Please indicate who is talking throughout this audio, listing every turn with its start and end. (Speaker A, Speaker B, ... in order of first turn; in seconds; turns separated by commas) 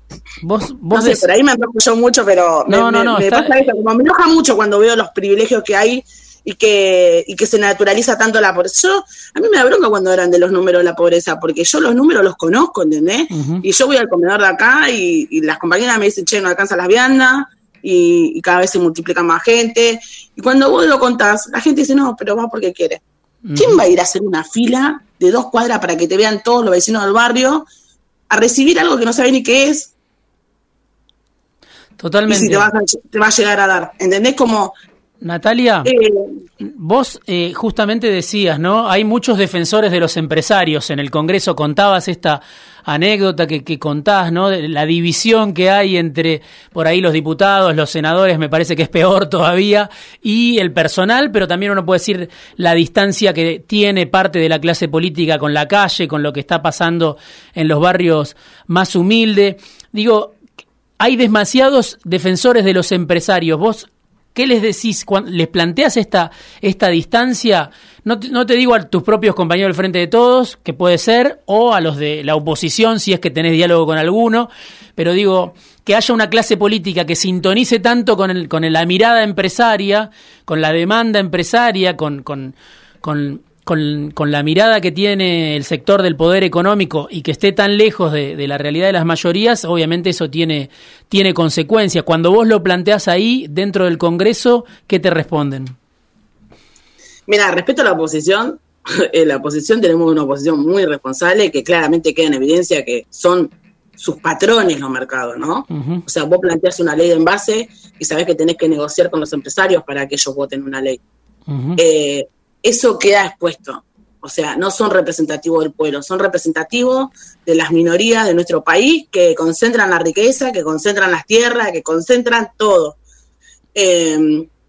Speaker A: 0.4-1.2, Speaker B: 0.9-23.0, Speaker A: 2.7-3.5, Speaker A: 13.3-13.6, Speaker A: 23.4-23.8, Speaker B: 23.6-27.6, Speaker B: 28.3-29.9, Speaker A: 32.0-32.7, Speaker B: 32.3-34.7, Speaker A: 35.2-35.9, Speaker B: 35.9-36.4, Speaker A: 36.6-60.4, Speaker A: 61.0-95.8, Speaker B: 97.3-111.0, Speaker A: 105.7-106.0, Speaker A: 111.5-111.8, Speaker B: 111.8-123.0, Speaker B: 123.8-124.5